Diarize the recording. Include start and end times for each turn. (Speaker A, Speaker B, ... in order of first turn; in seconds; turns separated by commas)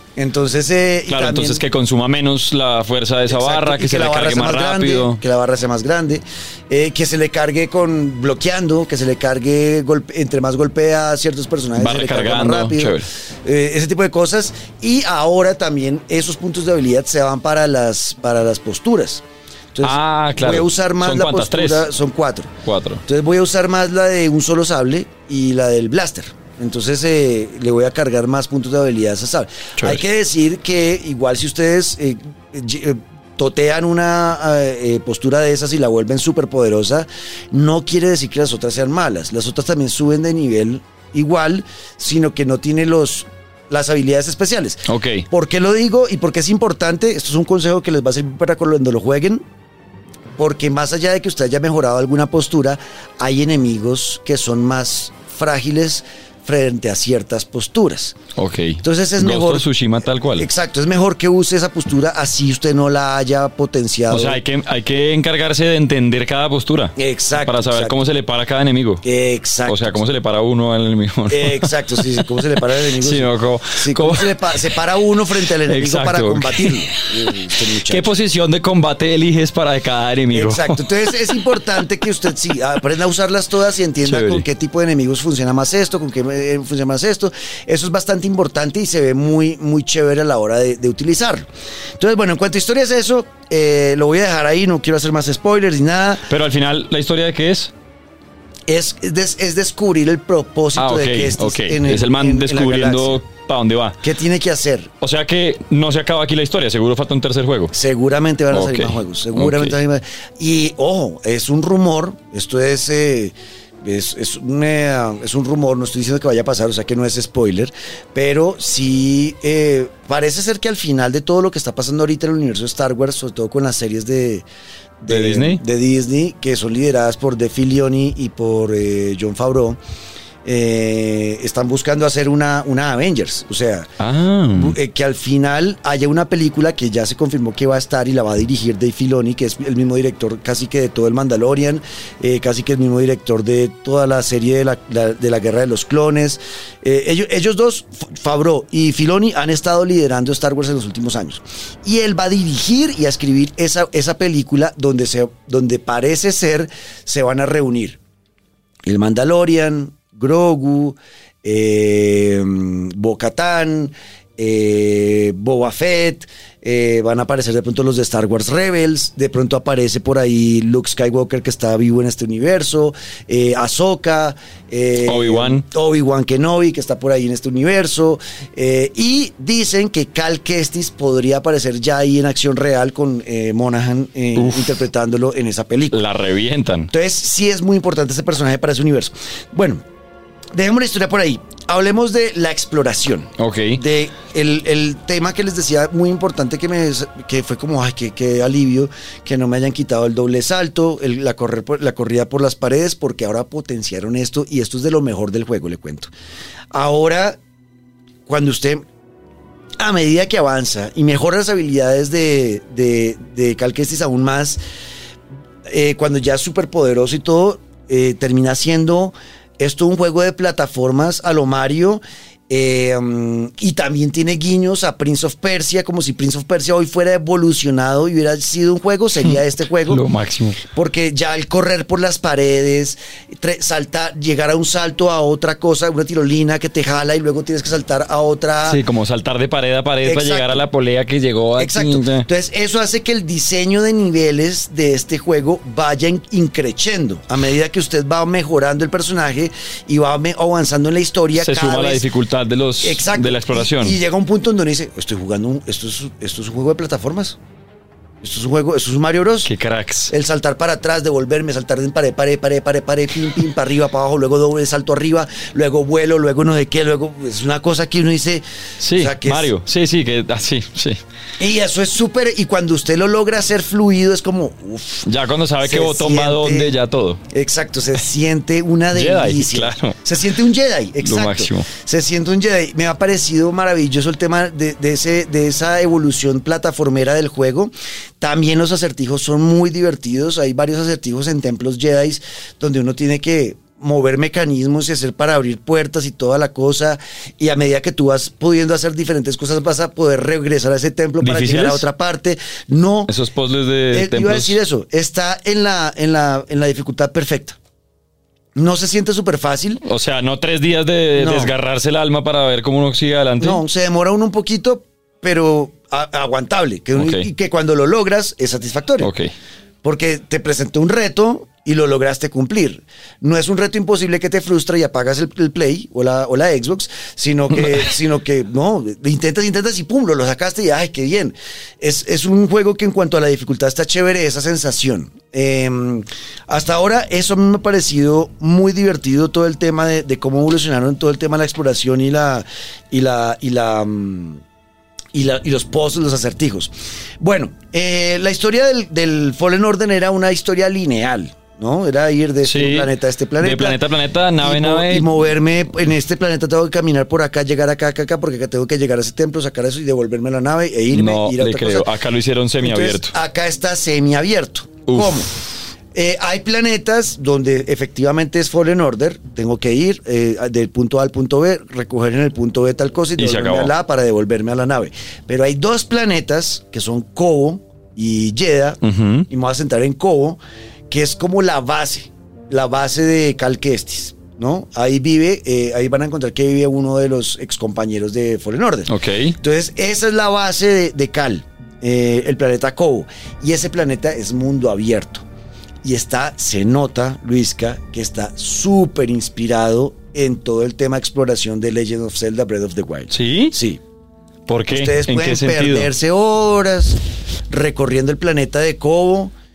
Speaker A: 0.2-1.6, Speaker B: 1.1-5.2, Speaker A: 3.3-19.2, Speaker B: 11.8-13.1, Speaker A: 19.7-22.5, Speaker B: 19.8-21.9, Speaker B: 22.6-23.0, Speaker A: 23.1-49.4, Speaker B: 44.9-45.3, Speaker A: 50.4-58.2, Speaker B: 58.4-60.5, Speaker A: 58.8-59.7, Speaker A: 60.3-64.4, Speaker B: 64.1-69.0, Speaker A: 67.0-68.0, Speaker A: 69.0-70.0, Speaker B: 69.7-74.7, Speaker A: 71.3-78.1, Speaker B: 75.5-81.2, Speaker A: 80.3-91.5, Speaker B: 84.0-84.5, Speaker A: 92.0-96.3, Speaker B: 96.3-97.7, Speaker A: 98.7-103.2, Speaker B: 100.8-104.0, Speaker A: 104.0-104.9, Speaker B: 105.0-107.7, Speaker A: 107.7-124.5, Speaker B: 108.5-109.8, Speaker A: 125.0-129.8, Speaker B: 125.1-125.6, Speaker A: 130.4-133.9, Speaker B: 134.0-134.8, Speaker A: 134.5-158.0, Speaker A: 158.9-186.0, Speaker B: 175.1-175.6, Speaker B: 184.3-184.8, Speaker B: 185.9-186.9, Speaker A: 186.9-189.8, Speaker A: 190.6-206.1, Speaker B: 193.4-193.8, Speaker A: 206.7-207.4, Speaker A: 208.3-208.8, Speaker A: 209.8-214.6, Speaker A: 215.7-230.0, Speaker B: 229.2-230.6, Speaker A: 230.7-238.8, Speaker B: 238.7-242.3, Speaker A: 240.0-240.6, Speaker A: 241.6-252.1, Speaker B: 251.4-254.0, Speaker A: 252.8-257.4, Speaker A: 258.2-259.5, Speaker B: 259.4-260.1, Speaker A: 260.1-269.5, Speaker B: 268.8-271.0, Speaker A: 271.4-275.1, Speaker B: 275.1-277.2, Speaker A: 275.6-276.7, Speaker A: 277.3-303.1, Speaker B: 278.9-280.0, Speaker B: 281.0-281.7, Speaker B: 301.2-301.9, Speaker B: 303.1-304.6, Speaker A: 303.9-307.6, Speaker A: 308.6-309.8, Speaker B: 309.8-313.6, Speaker A: 311.2-311.5, Speaker A: 313.4-319.1, Speaker B: 317.0-317.3, Speaker B: 319.0-319.3, Speaker A: 319.8-344.4, Speaker A: 345.1-353.8, Speaker B: 352.4-355.1, Speaker A: 354.4-361.9, Speaker B: 360.9-363.1, Speaker A: 362.6-365.3, Speaker B: 364.9-365.2, Speaker A: 365.9-380.4, Speaker B: 373.2-373.7, Speaker B: 378.8-379.3, Speaker A: 380.9-395.2, Speaker B: 388.9-389.4, Speaker A: 395.8-403.8, Speaker B: 403.1-403.5, Speaker B: 404.5-405.9, Speaker A: 404.7-409.3